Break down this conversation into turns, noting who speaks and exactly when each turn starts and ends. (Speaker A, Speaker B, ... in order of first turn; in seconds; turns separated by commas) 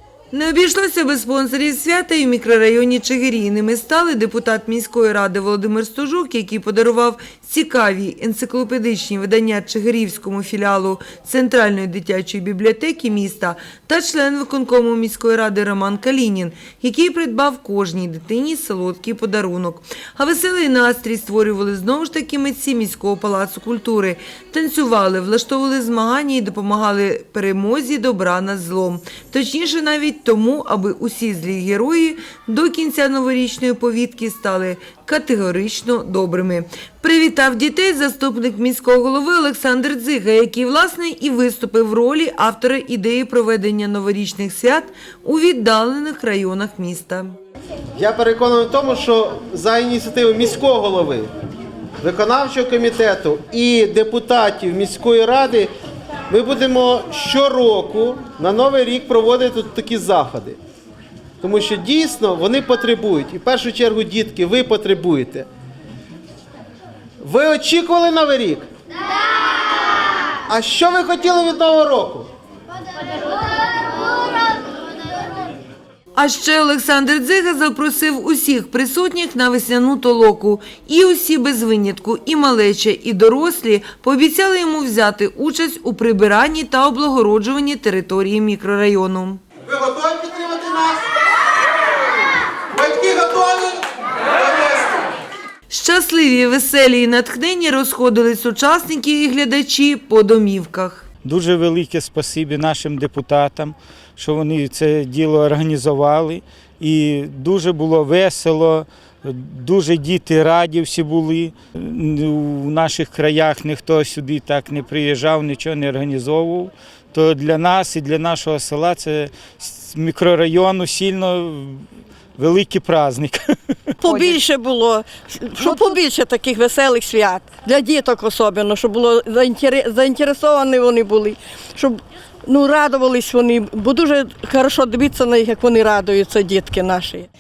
Speaker A: 0.3-47.4, Speaker B: 48.0-51.3, Speaker B: 52.0-55.7, Speaker B: 56.3-60.6, Speaker B: 61.4-65.5, Speaker B: 67.2-68.6, Speaker B: 70.5-72.3, Speaker A: 76.1-89.4, Speaker B: 89.7-91.1, Speaker B: 92.7-95.0, Speaker A: 95.7-101.0, Speaker C: 101.2-121.8, Speaker C: 122.4-123.5, Speaker D: 124.0-137.3